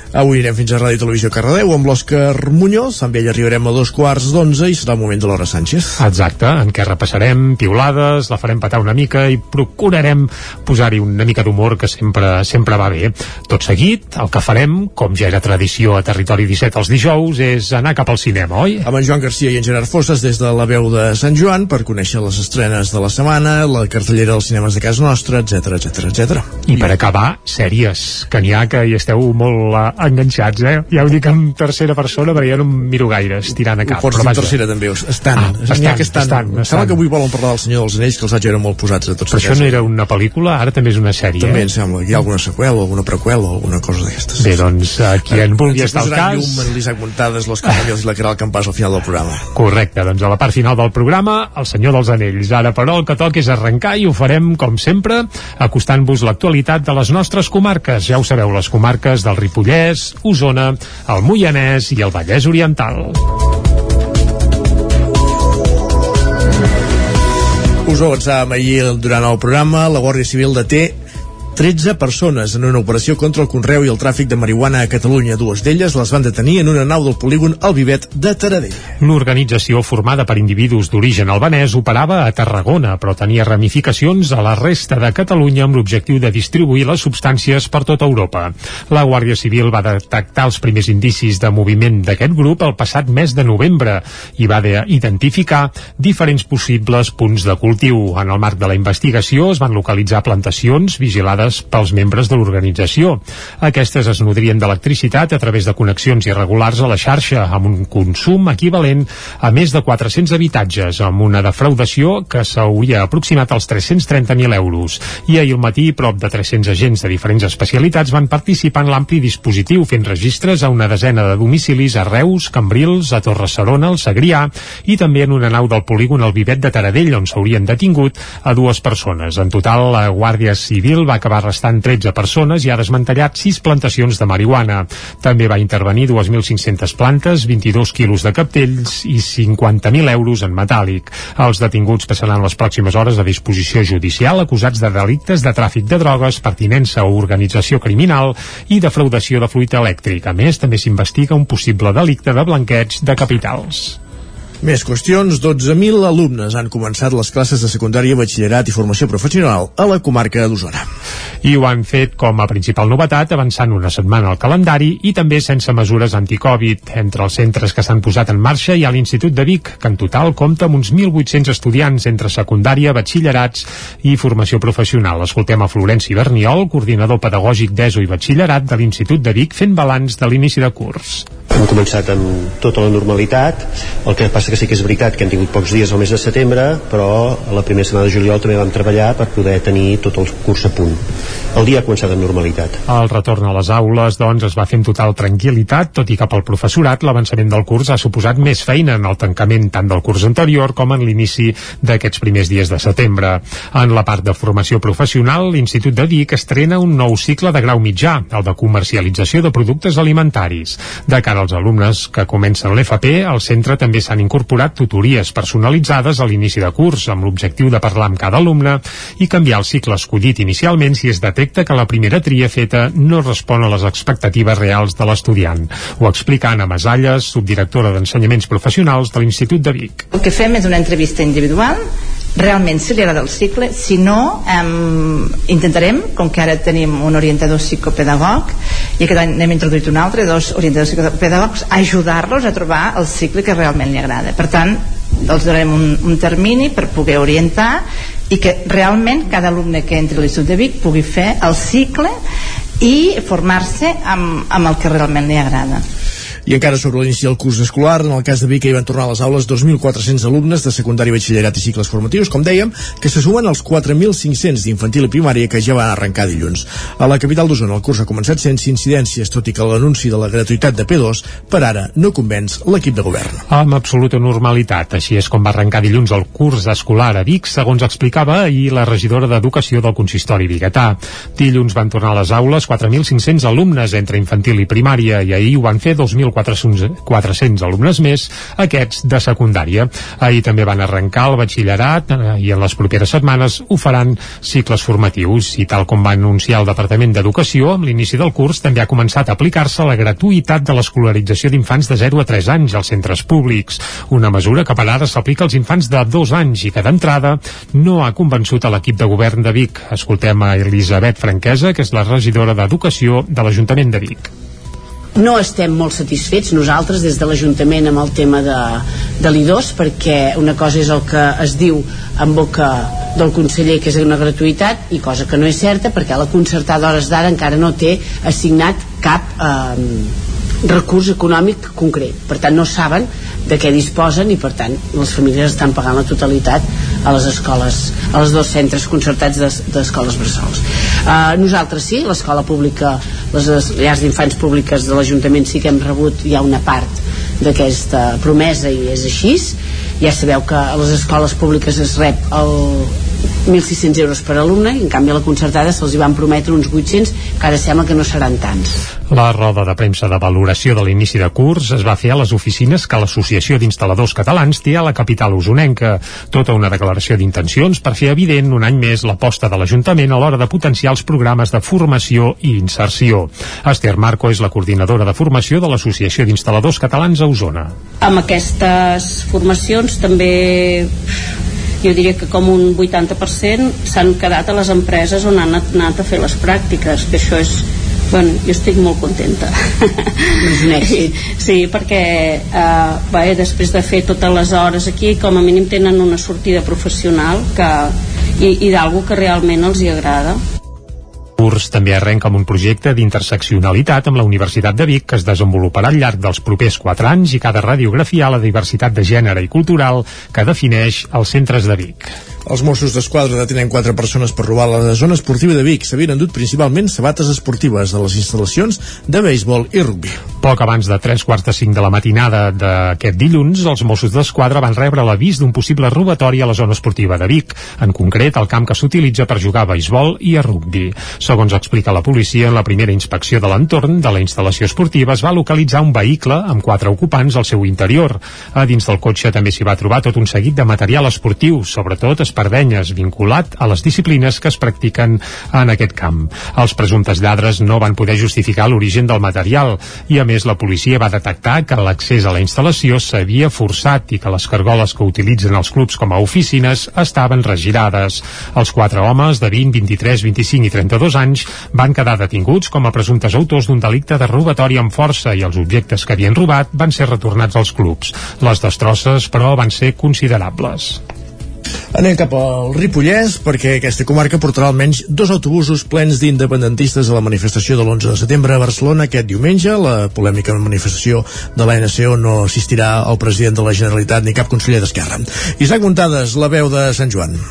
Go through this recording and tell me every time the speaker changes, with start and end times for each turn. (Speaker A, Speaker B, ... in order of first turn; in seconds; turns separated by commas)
Speaker A: 0.1-6.0, Speaker B: 6.0-18.9, Speaker A: 18.9-26.9, Speaker B: 26.7-34.6, Speaker A: 33.9-39.8, Speaker B: 35.4-37.0, Speaker B: 39.3-41.7, Speaker A: 41.4-44.6, Speaker B: 44.4-46.7, Speaker A: 45.3-49.5, Speaker B: 49.5-63.2, Speaker A: 67.9-71.0, Speaker A: 71.6-79.0, Speaker B: 79.0-154.0, Speaker A: 154.6-160.8, Speaker B: 161.4-181.3, Speaker C: 181.6-191.0, Speaker C: 191.6-192.7, Speaker B: 192.9-230.1, Speaker D: 230.2-231.8, Speaker D: 232.4-252.1, Speaker D: 252.8-255.8, Speaker A: 256.5-273.4, Speaker B: 273.5-314.3, Speaker E: 315.1-358.8, Speaker B: 359.1-377.7, Speaker F: 378.0-380.9, Speaker F: 381.8-389.5, Speaker F: 390.4-400.4, Speaker E: 390.4-391.1, Speaker B: 401.4-412.1, Speaker A: 412.5-420.2, Speaker B: 420.4-471.0, Speaker A: 471.9-487.4